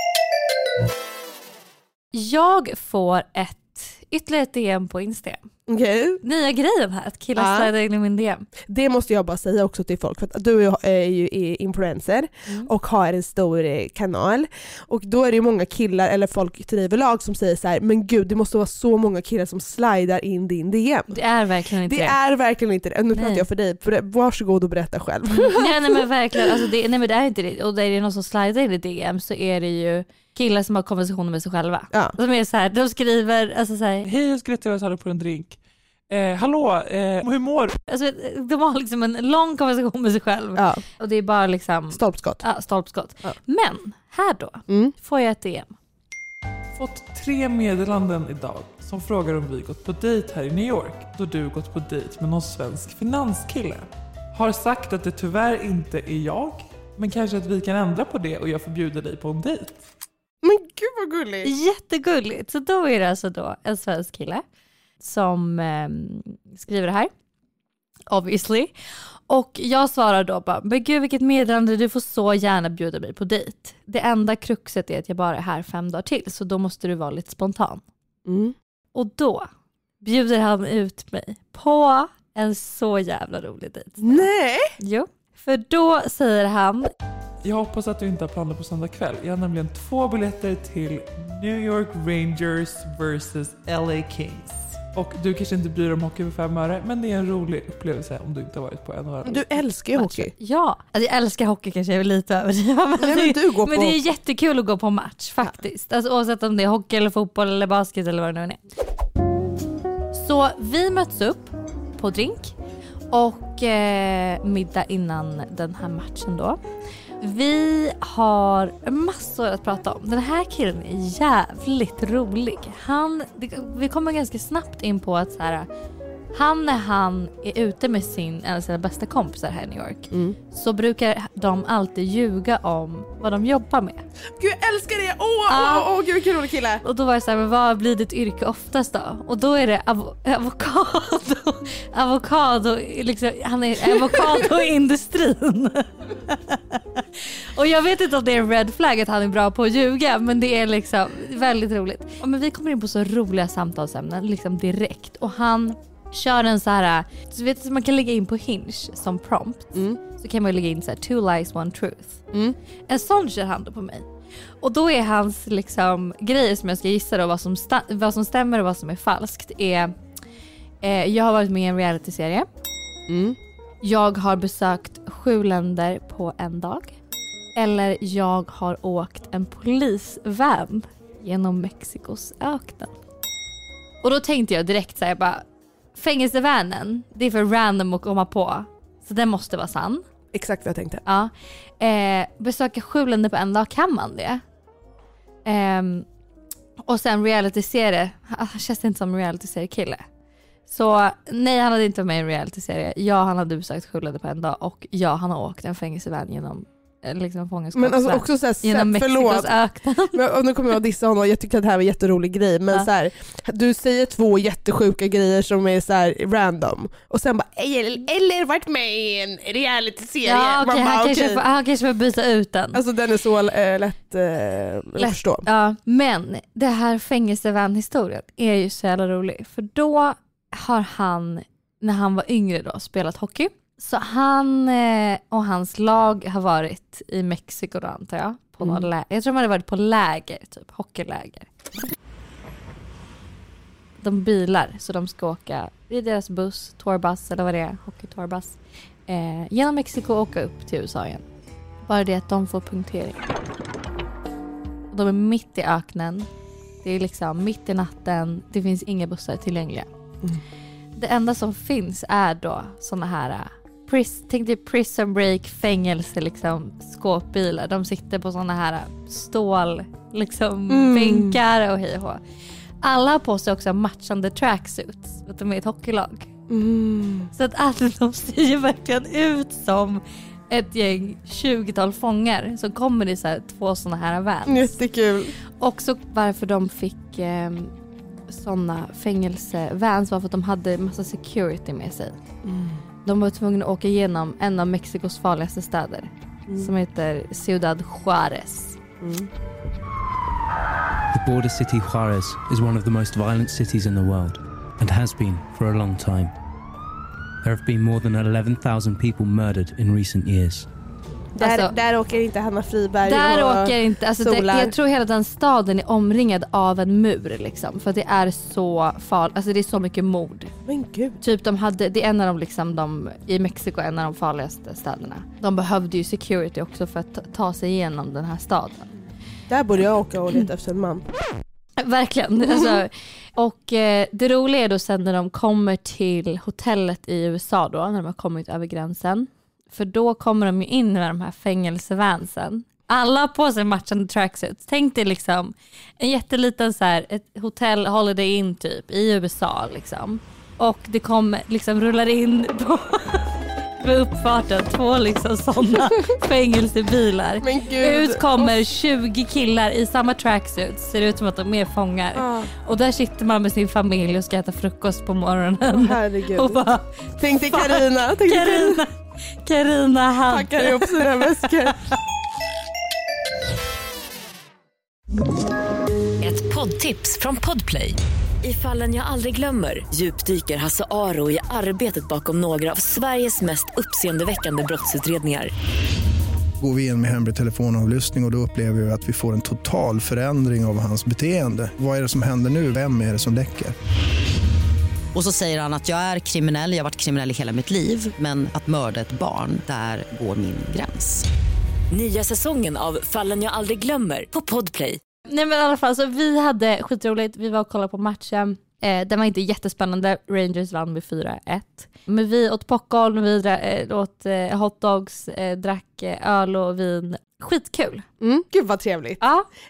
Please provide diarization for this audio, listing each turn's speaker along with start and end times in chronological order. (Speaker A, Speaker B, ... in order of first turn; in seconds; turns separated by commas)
Speaker A: 2.1-5.5, Speaker B: 5.7-6.2, Speaker A: 6.2-8.5, Speaker B: 7.3-7.7, Speaker B: 8.7-21.1, Speaker A: 21.1-22.2, Speaker B: 21.8-26.6, Speaker A: 23.1-23.4, Speaker A: 25.3-34.1, Speaker B: 31.9-32.2, Speaker C: 34.0-35.6, Speaker C: 36.1-37.8, Speaker A: 37.9-45.7, Speaker B: 40.5-40.8, Speaker B: 41.9-42.4, Speaker B: 44.7-44.9, Speaker C: 46.8-59.8, Speaker B: 60.4-61.5, Speaker A: 61.4-64.4, Speaker A: 65.0-67.1, Speaker A: 68.1-68.7, Speaker A: 69.3-77.8, Speaker B: 78.2-78.5, Speaker A: 78.9-79.5, Speaker A: 80.0-84.3, Speaker B: 84.0-84.7, Speaker A: 84.8-86.9, Speaker C: 87.4-99.7, Speaker B: 99.2-100.3, Speaker A: 99.9-108.6, Speaker B: 103.0-104.0, Speaker A: 110.1-112.5, Speaker A: 113.1-116.6, Speaker A: 117.2-125.7, Speaker A: 126.3-134.0, Speaker B: 130.1-130.4, Speaker B: 134.4-136.8, Speaker A: 135.5-135.9, Speaker A: 136.8-162.2, Speaker B: 143.9-144.2, Speaker B: 159.7-160.0, Speaker A: 162.9-164.1, Speaker A: 164.6-169.9, Speaker A: 170.8-172.5, Speaker B: 173.1-173.4, Speaker A: 173.8-176.9, Speaker A: 177.6-182.9, Speaker A: 184.0-190.0, Speaker B: 190.3-191.0, Speaker A: 191.1-194.4, Speaker A: 195.4-196.1, Speaker A: 196.8-200.0, Speaker A: 200.7-210.2, Speaker B: 207.7-209.5, Speaker B: 210.1-221.4, Speaker A: 220.2-222.8, Speaker B: 222.7-225.4, Speaker A: 225.0-241.5, Speaker B: 238.6-238.9, Speaker A: 244.0-251.2, Speaker A: 251.8-253.2, Speaker A: 254.9-256.3, Speaker A: 256.8-259.9, Speaker A: 260.9-272.2, Speaker B: 270.7-271.4, Speaker A: 272.8-276.3, Speaker B: 276.5-277.3, Speaker A: 277.3-284.8, Speaker B: 284.4-285.3, Speaker A: 285.6-287.7, Speaker A: 288.3-292.2, Speaker B: 292.4-292.8, Speaker A: 293.0-298.8, Speaker B: 299.0-299.3, Speaker D: 301.1-306.3, Speaker D: 307.4-310.7, Speaker B: 311.4-314.7, Speaker A: 311.4-311.7, Speaker A: 313.0-320.5, Speaker B: 320.6-321.2, Speaker A: 321.2-328.9, Speaker B: 329.5-331.1, Speaker A: 331.8-371.7, Speaker B: 332.4-332.8, Speaker B: 357.4-358.6, Speaker B: 362.1-362.5, Speaker B: 365.7-368.8, Speaker B: 370.2-371.8, Speaker E: 376.2-385.5, Speaker F: 386.6-393.7, Speaker G: 395.1-401.2, Speaker E: 401.9-405.0, Speaker A: 405.3-418.0, Speaker B: 418.2-419.2, Speaker A: 419.2-419.4